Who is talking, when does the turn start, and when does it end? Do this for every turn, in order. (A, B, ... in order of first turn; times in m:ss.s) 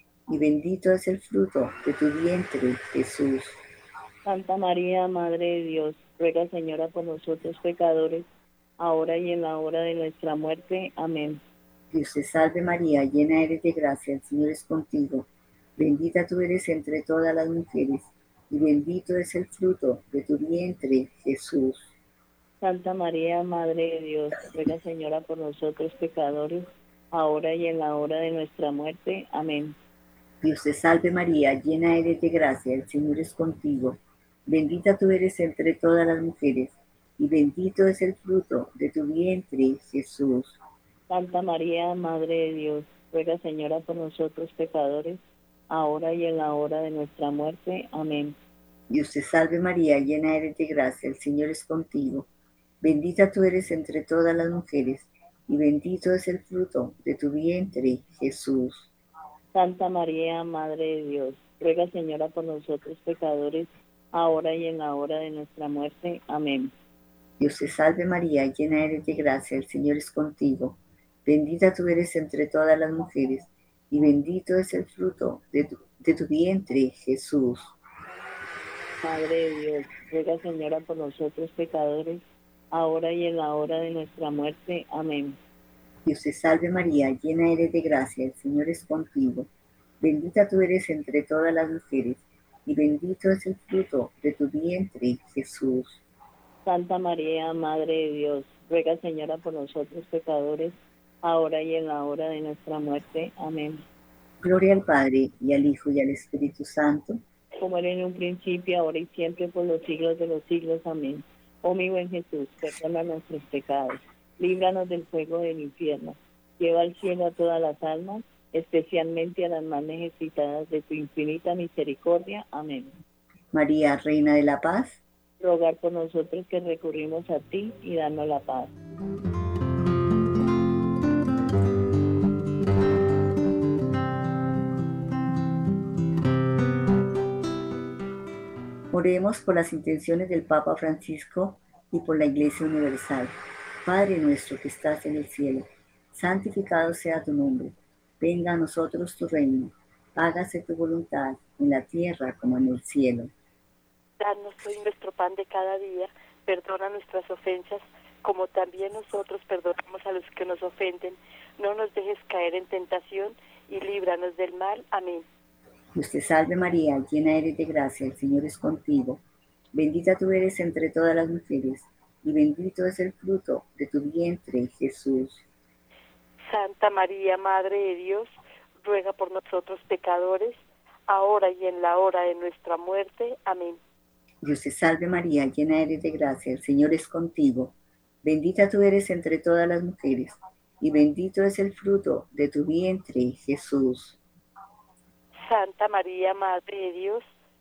0:00.3-0:03.6 A
0:04.3-0:08.2 B
0:08.8-0:11.4 B
0:11.9-0:21.9 A
0:22.6-0:29.8 B
0:30.4-0:40.6 A
0:41.1-0:45.2 B
0:45.7-0:48.3 B
0:48.9-0:52.3 A
0:52.8-0:58.9 A
0:59.6-1:06.7 B
1:07.4-1:17.8 A
1:19.0-1:22.2 B
1:22.7-1:25.4 B
1:26.1-1:29.5 A
1:30.0-1:36.0 A
1:36.7-1:43.8 B
1:44.4-1:47.2 A
1:47.6-2:02.9 B
2:03.5-2:05.0 A
2:05.4-2:08.7 B
2:18.9-2:33.3 A
2:34.2-2:45.3 C
2:46.0-2:49.2 A
2:49.7-2:55.4 A
2:56.5-3:03.8 C
3:04.4-3:14.2 A
3:15.5-3:17.3 C